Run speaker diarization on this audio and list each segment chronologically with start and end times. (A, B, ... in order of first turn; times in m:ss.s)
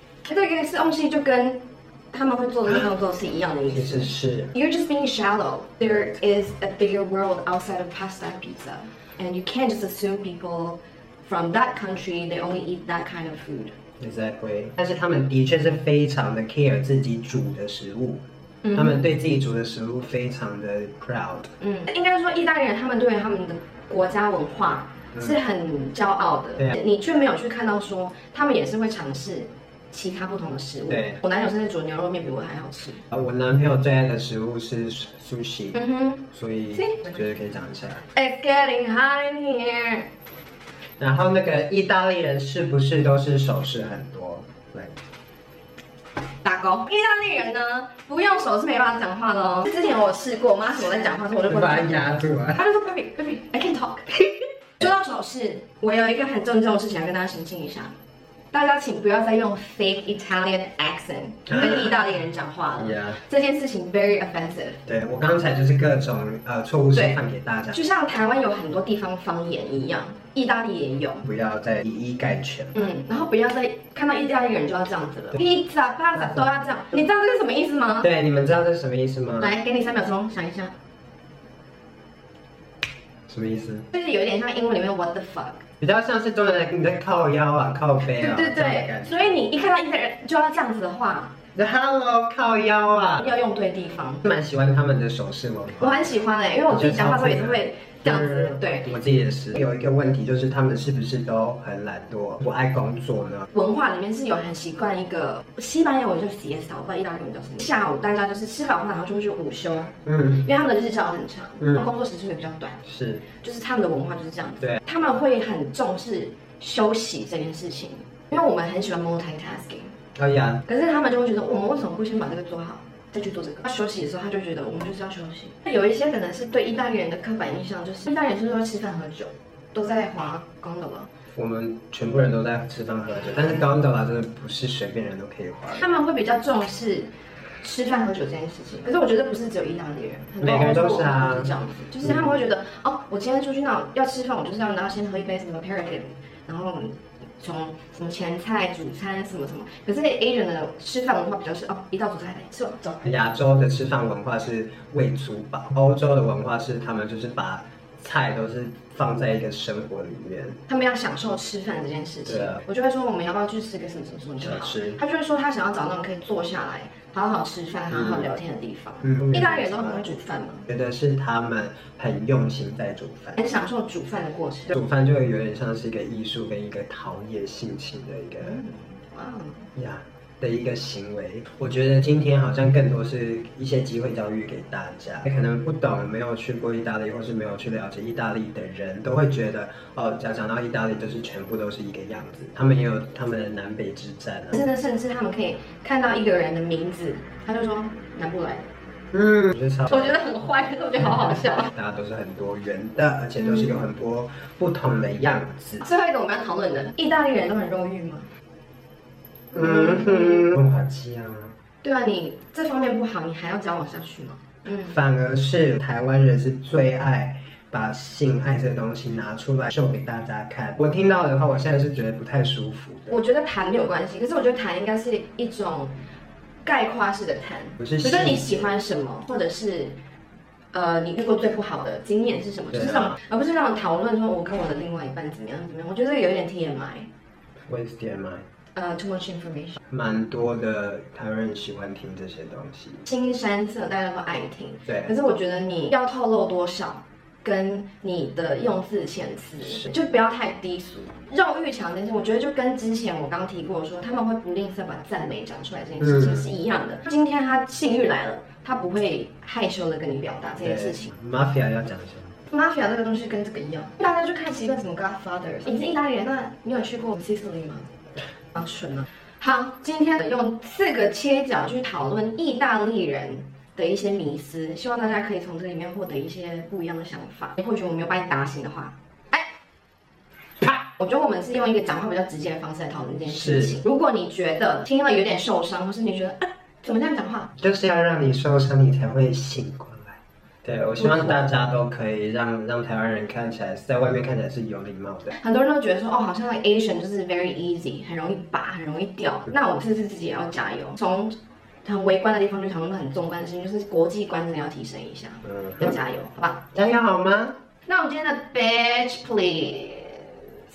0:00.2-0:13.8 A
0:03.7-0:04.5 B
0:14.0-0:21.5 B
0:18.6-0:19.0 A
0:21.6-0:33.0 A
0:30.9-0:31.2 B
0:33.1-0:38.1 B
0:35.7-0:37.1 A
0:38.1-0:40.1 A
0:41.0-0:45.0 B
0:46.4-0:54.1 A
0:51.4-0:52.6 B
0:54.8-0:57.9 A
0:58.5-1:04.8 A
1:02.8-1:03.2 B
1:04.8-1:07.8 B
1:06.9-1:07.2 A
1:07.7-1:11.2 A
1:11.2-1:12.8 B
1:12.7-1:18.1 A
1:16.2-1:16.4 B
1:18.0-1:19.5 B
1:19.4-1:20.7 A
1:23.3-1:23.9 B
1:23.9-1:25.6 A
1:25.8-1:29.4 B
1:28.0-1:31.3 A
1:31.5-1:33.3 B
1:33.2-1:34.2 A
1:34.2-1:36.1 B
1:35.8-1:38.9 A
1:36.7-1:43.5 B
1:43.5-1:52.8 A
1:50.1-1:50.3 B
1:52.8-1:53.2 B
1:53.3-1:59.9 A
2:00.2-2:00.6 B
2:00.6-2:11.1 A
2:11.3-2:15.9 B
2:15.7-2:33.1 A
2:20.4-2:21.5 B
2:33.0-2:40.6 B
2:40.7-2:50.7 A
2:42.2-2:42.6 B
2:44.4-2:45.0 B
2:47.9-2:48.3 B
2:49.0-2:50.1 B
2:50.7-2:53.4 B
2:53.4-2:54.8 A
2:54.7-2:58.6 B
2:58.4-2:59.7 A
2:59.7-3:14.6 B
3:14.5-3:18.7 A
3:19.1-3:20.2 B
3:19.9-3:21.7 A
3:21.6-3:25.8 B
3:23.4-3:23.8 A
3:25.8-3:28.3 A
3:29.5-3:30.4 A
3:29.5-3:31.5 B
3:31.8-3:34.8 A
3:34.6-3:43.1 B
3:43.1-3:45.9 A
3:46.6-3:50.0 A
3:47.8-3:48.7 B
3:50.7-3:57.1 A
3:52.7-3:53.2 B
3:57.7-3:58.4 B
3:58.8-3:59.8 A
3:59.9-4:03.0 B
4:03.0-4:21.1 A
4:04.8-4:05.1 B
4:20.6-4:22.4 B
4:22.5-4:27.9 A
4:28.5-4:39.5 A
4:41.0-4:47.5 A
4:43.3-4:43.8 B
4:47.6-4:55.4 B
4:51.0-4:51.4 A
4:55.3-5:06.6 A
5:05.5-5:05.9 B
5:06.7-5:07.6 B
5:07.9-5:10.6 A